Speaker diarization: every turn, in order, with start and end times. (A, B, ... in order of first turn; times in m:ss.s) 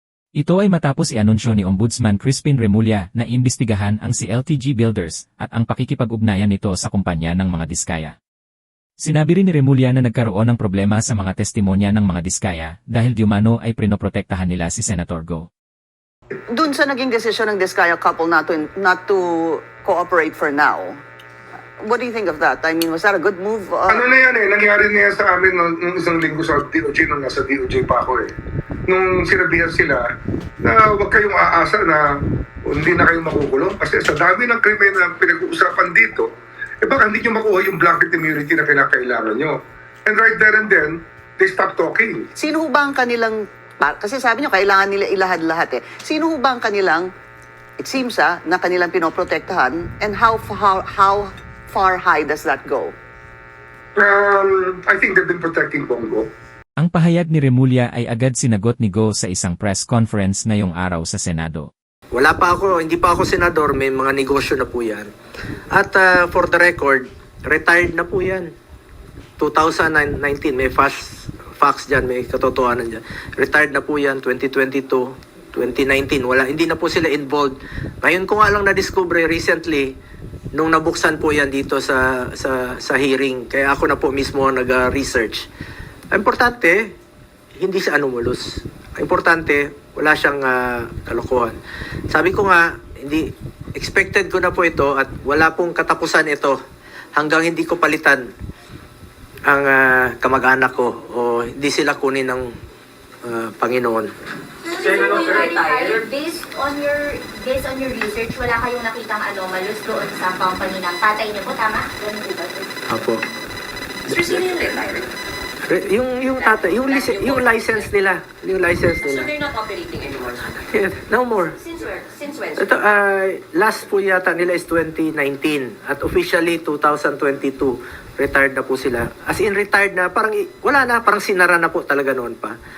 0:00.4-0:08.1 A
0:09.0-0:15.5 A
0:16.5-0:21.0 B
0:21.8-0:24.0 B
0:23.9-0:28.3 C
0:28.9-0:30.0 C
0:30.6-0:36.3 C
0:36.8-0:42.3 C
0:42.4-0:47.1 B
0:47.8-0:52.9 B
0:53.9-0:56.3 C
0:56.8-1:01.7 A
1:02.1-1:05.1 D
1:05.7-1:08.5 D
1:09.4-1:19.9 D
1:20.5-1:25.5 D
1:26.1-1:26.9 D
1:27.6-1:31.6 D
1:32.1-1:36.6 D
1:37.2-1:38.3 D
1:39.4-1:42.5 D
1:43.2-1:44.1 D
1:44.6-1:52.7 E
1:45.0-1:45.9 F
1:52.9-1:53.2 D
1:54.1-1:54.6 D
1:54.1-1:55.1 F
1:55.6-1:59.4 D
1:56.4-1:57.8 F
1:59.0-2:00.6 F
2:00.7-2:01.6 D
2:02.2-2:02.6 F
2:02.6-2:12.6 D